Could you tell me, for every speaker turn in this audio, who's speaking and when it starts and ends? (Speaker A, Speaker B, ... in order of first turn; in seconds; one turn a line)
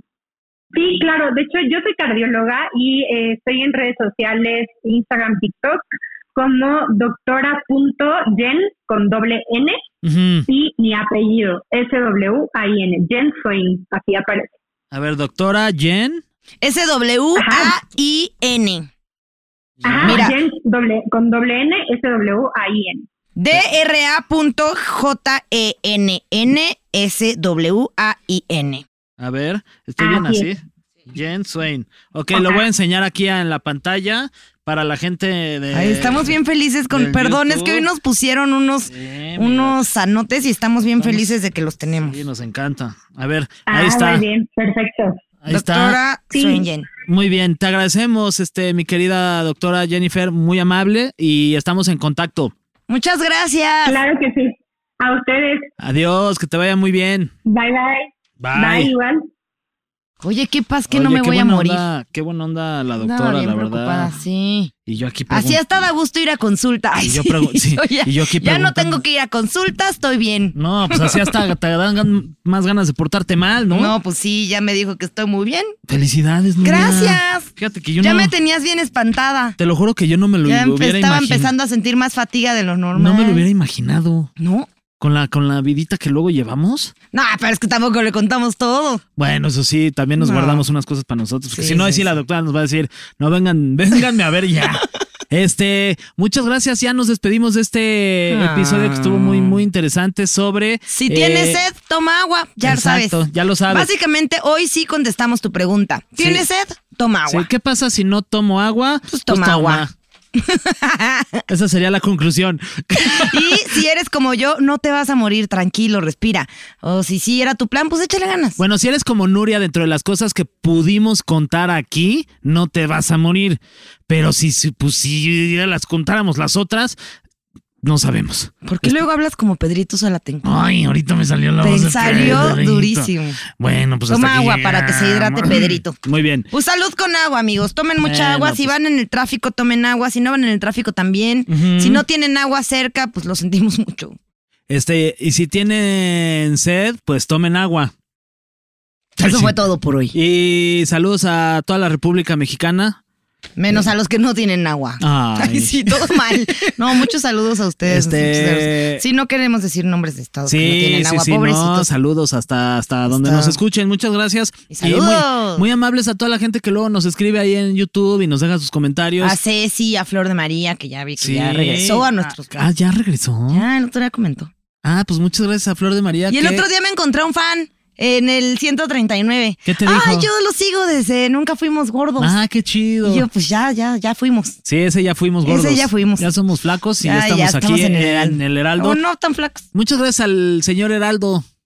Speaker A: 0.7-5.8
Speaker A: 6.3-9.8
Speaker B: 10.0-10.5
Speaker A: 10.5-14.5
Speaker B: 14.9-16.2
Speaker C: 16.6-18.9
Speaker A: 17.3-17.7
Speaker B: 19.8-20.3
Speaker A: 19.8-23.1
Speaker C: 20.0-20.4
Speaker C: 23.4-28.8
Speaker B: 29.2-36.3
Speaker A: 30.0-30.5
Speaker C: 35.7-42.2
Speaker B: 36.9-37.9
Speaker B: 38.9-39.8
Speaker B: 41.0-41.3
Speaker B: 42.0-44.2
Speaker A: 43.7-45.2
Speaker B: 45.4-46.0
Speaker C: 45.5-46.9
Speaker A: 46.3-46.6
Speaker B: 47.0-52.5
Speaker C: 52.9-54.0
Speaker A: 53.9-55.7
Speaker B: 55.8-57.3
Speaker A: 57.5-59.3
Speaker B: 58.4-58.9
Speaker C: 60.2-61.8
Speaker B: 60.9-64.1
Speaker C: 63.0-64.7
Speaker B: 64.8-65.6
Speaker C: 65.3-71.2
Speaker B: 66.9-69.0
Speaker B: 70.5-73.9
Speaker C: 73.7-75.7
Speaker B: 75.9-78.3
Speaker C: 76.6-79.6
Speaker B: 79.6-81.5
Speaker C: 80.4-83.4
Speaker B: 82.9-84.3
Speaker C: 84.4-84.7
Speaker B: 85.0-86.9
Speaker C: 87.1-89.0
Speaker B: 89.2-101.6
Speaker C: 90.2-90.6
Speaker C: 91.5-92.2
Speaker C: 98.3-99.6
Speaker C: 100.9-107.5
Speaker B: 102.6-103.9
Speaker B: 106.2-106.4
Speaker B: 107.3-109.9
Speaker C: 109.1-111.4
Speaker B: 111.5-113.8
Speaker C: 113.0-118.6
Speaker B: 118.6-127.0
Speaker B: 127.8-129.0
Speaker C: 128.6-130.5
Speaker B: 130.4-136.5
Speaker C: 131.6-133.4
Speaker C: 134.1-136.0
Speaker C: 136.5-144.2
Speaker B: 138.0-138.7
Speaker B: 141.5-142.0
Speaker B: 144.7-147.9
Speaker C: 149.2-150.1
Speaker B: 149.2-149.5
Speaker B: 150.1-153.0
Speaker C: 153.6-161.9
Speaker B: 155.0-156.3
Speaker B: 157.8-159.0
Speaker B: 160.5-169.4
Speaker C: 163.1-163.6
Speaker C: 164.7-165.6
Speaker C: 169.2-172.6
Speaker B: 171.2-173.7
Speaker C: 173.5-174.5
Speaker B: 174.8-176.6
Speaker C: 176.3-182.3
Speaker B: 179.7-180.3
Speaker B: 182.2-183.3
Speaker C: 183.0-184.6
Speaker B: 184.7-189.0
Speaker C: 185.4-186.3
Speaker C: 187.0-189.7
Speaker B: 189.7-191.4